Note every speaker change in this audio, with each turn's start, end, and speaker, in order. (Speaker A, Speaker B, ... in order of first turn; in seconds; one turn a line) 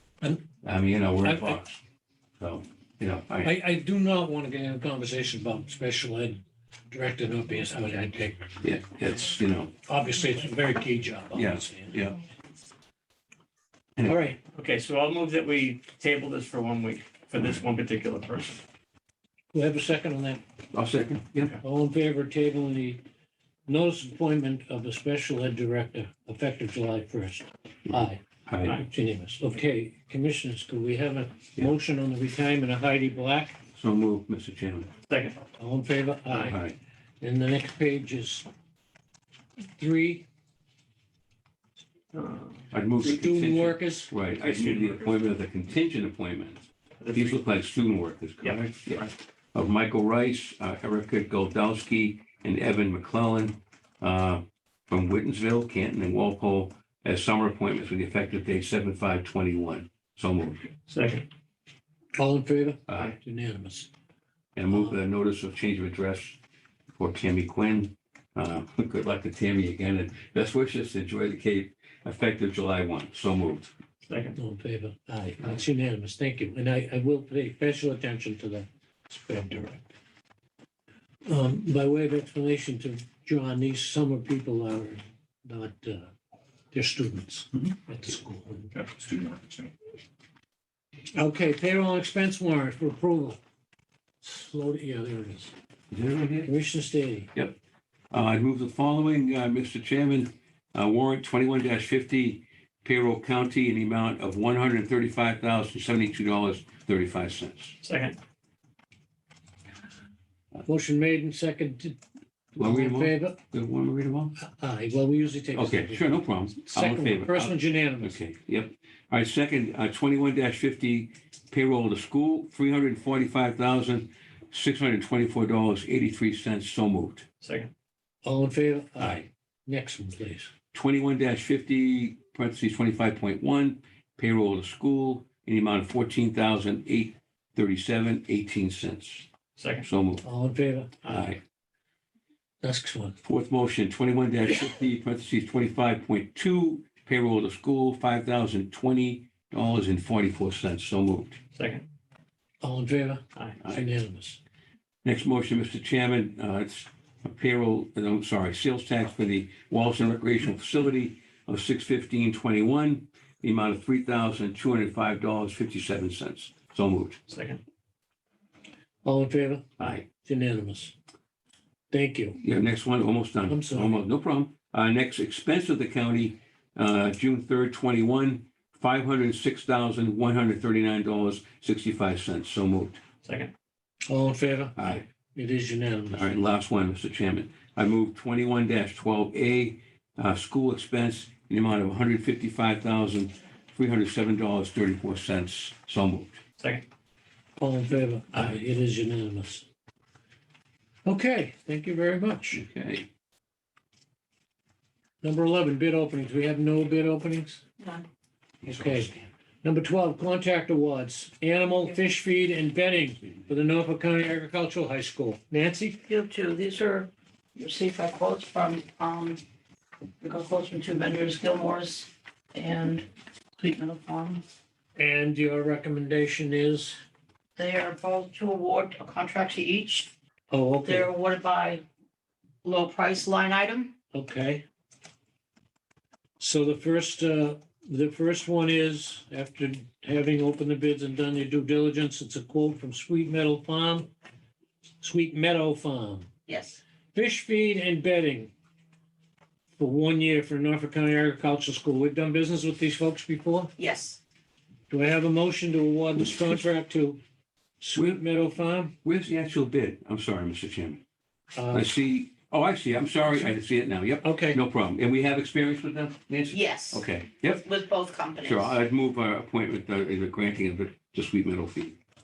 Speaker A: 0.6-1.8
Speaker B: 1.2-1.6
Speaker A: 2.4-3.5
Speaker B: 3.4-8.6
Speaker A: 8.6-9.7
Speaker B: 9.9-12.0
Speaker A: 11.3-12.2
Speaker B: 14.0-14.4
Speaker C: 14.5-18.6
Speaker B: 19.5-20.4
Speaker A: 20.7-21.6
Speaker B: 21.6-23.0
Speaker B: 23.7-33.6
Speaker A: 27.9-28.8
Speaker A: 33.8-34.9
Speaker C: 35.1-35.4
Speaker B: 35.6-36.6
Speaker A: 36.3-36.8
Speaker B: 37.2-38.5
Speaker B: 39.8-40.3
Speaker C: 42.1-42.6
Speaker A: 42.7-60.7
Speaker B: 43.0-44.1
Speaker C: 44.4-45.1
Speaker C: 47.0-47.4
Speaker C: 48.4-49.1
Speaker C: 60.9-61.3
Speaker B: 62.2-63.9
Speaker A: 62.9-63.1
Speaker A: 64.5-66.4
Speaker B: 64.7-65.0
Speaker A: 67.0-73.7
Speaker C: 74.1-74.4
Speaker B: 74.4-79.9
Speaker B: 81.3-86.1
Speaker B: 86.7-88.7
Speaker C: 88.7-89.7
Speaker B: 91.2-93.4
Speaker B: 94.2-95.5
Speaker A: 95.9-96.5
Speaker B: 96.5-97.3
Speaker A: 98.1-107.8
Speaker C: 107.8-108.2
Speaker B: 110.6-112.0
Speaker A: 112.5-114.3
Speaker B: 112.6-113.4
Speaker B: 114.4-118.2
Speaker A: 115.5-127.3
Speaker C: 127.4-127.7
Speaker B: 128.2-130.5
Speaker A: 130.7-139.3
Speaker C: 139.6-139.9
Speaker A: 139.8-140.2
Speaker B: 140.2-141.0
Speaker A: 141.0-141.4
Speaker B: 142.6-143.2
Speaker A: 143.2-151.4
Speaker C: 151.5-151.8
Speaker B: 152.6-154.4
Speaker A: 155.0-167.2
Speaker C: 167.3-167.6
Speaker B: 169.0-170.9
Speaker A: 169.8-170.0
Speaker B: 171.9-172.4
Speaker A: 172.4-183.0
Speaker B: 173.5-174.1
Speaker C: 183.2-183.5
Speaker B: 184.1-186.3
Speaker A: 184.8-185.0
Speaker A: 186.1-196.4
Speaker B: 197.6-199.6
Speaker B: 201.0-202.6
Speaker A: 202.5-203.1
Speaker B: 205.2-207.6
Speaker A: 208.6-209.3
Speaker B: 208.6-216.0
Speaker D: 216.1-219.4
Speaker D: 220.2-223.1
Speaker D: 223.6-224.4
Speaker B: 224.9-227.0
Speaker D: 227.6-230.1
Speaker B: 230.5-231.1
Speaker D: 230.8-231.8
Speaker D: 232.6-233.9
Speaker B: 234.1-234.6
Speaker B: 236.4-244.1
Speaker B: 245.0-246.3
Speaker D: 246.5-246.8
Speaker B: 247.1-248.5
Speaker B: 249.8-253.7
Speaker D: 253.8-254.2
Speaker B: 254.9-257.2
Speaker B: 257.8-258.9
Speaker A: 259.0-261.0
Speaker B: 261.6-261.9
Speaker A: 261.7-267.6
Speaker B: 264.2-264.6
Speaker D: 266.5-268.7
Speaker A: 268.4-272.0